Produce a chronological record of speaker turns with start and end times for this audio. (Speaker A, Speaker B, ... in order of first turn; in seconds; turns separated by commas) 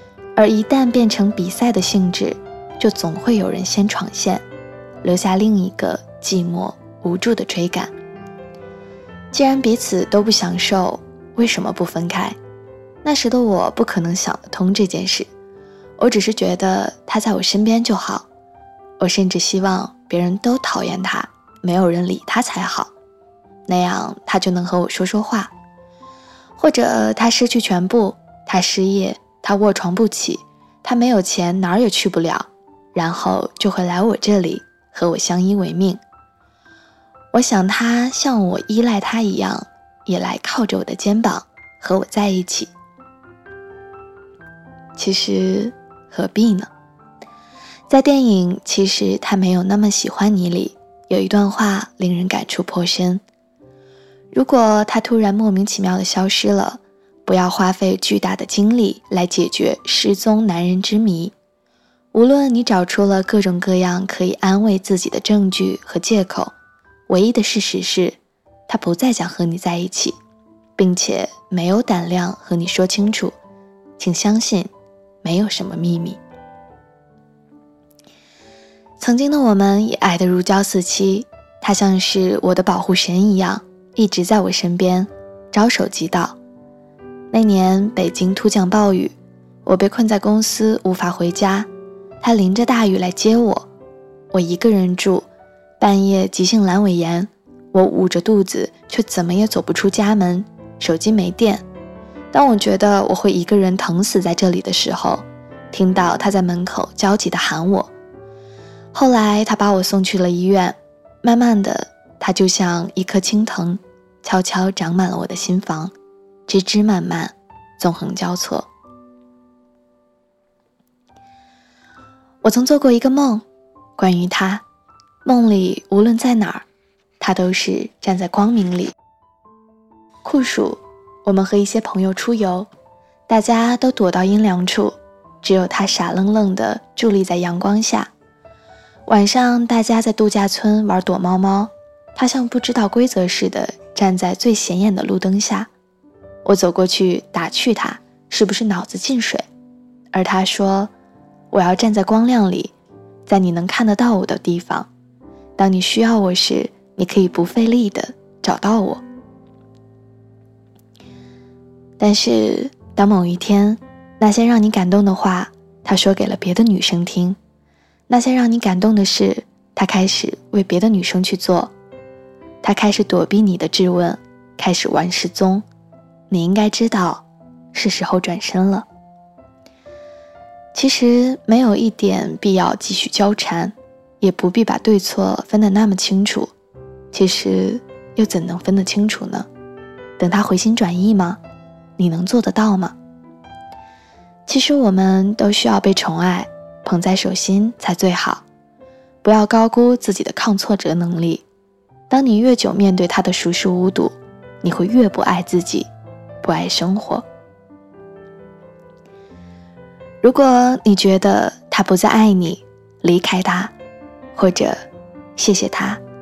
Speaker A: 0.3-4.4, Speaker A: 5.0-7.9, Speaker A: 9.3-12.4, Speaker A: 13.0-15.3, Speaker A: 16.0-18.3, Speaker A: 19.0-22.9, Speaker A: 23.7-25.5, Speaker A: 26.6-36.0, Speaker A: 37.3-42.7, Speaker A: 45.0-46.7, Speaker A: 47.9-53.2, Speaker A: 54.3-61.3, Speaker A: 62.1-66.5, Speaker A: 67.1-70.2, Speaker A: 70.8-73.3, Speaker A: 74.0-74.7, Speaker A: 75.2-76.2, Speaker A: 79.0-86.4, Speaker A: 87.3-91.7, Speaker A: 92.2-93.7, Speaker A: 94.3-95.3, Speaker A: 95.8-101.6, Speaker A: 102.3-107.9, Speaker A: 108.9-115.9, Speaker A: 116.5-118.7, Speaker A: 122.4-123.4, Speaker A: 124.0-124.6, Speaker A: 125.2-126.6, Speaker A: 127.2-128.9, Speaker A: 130.2-132.7, Speaker A: 133.3-138.1, Speaker A: 139.1-145.7, Speaker A: 146.4-149.4, Speaker A: 150.1-150.9, Speaker A: 151.5-152.7, Speaker A: 153.2-154.9, Speaker A: 155.6-159.0, Speaker A: 162.0-167.4, Speaker A: 168.1-171.7, Speaker A: 172.6-175.6, Speaker A: 176.3-178.8, Speaker A: 180.7-186.5, Speaker A: 187.1-189.5, Speaker A: 190.2-191.4, Speaker A: 192.0-192.9, Speaker A: 194.4-198.4, Speaker A: 199.2-201.4, Speaker A: 202.1-205.9, Speaker A: 206.4-207.2, Speaker A: 210.2-213.7, Speaker A: 214.3-214.8, Speaker A: 215.3-216.0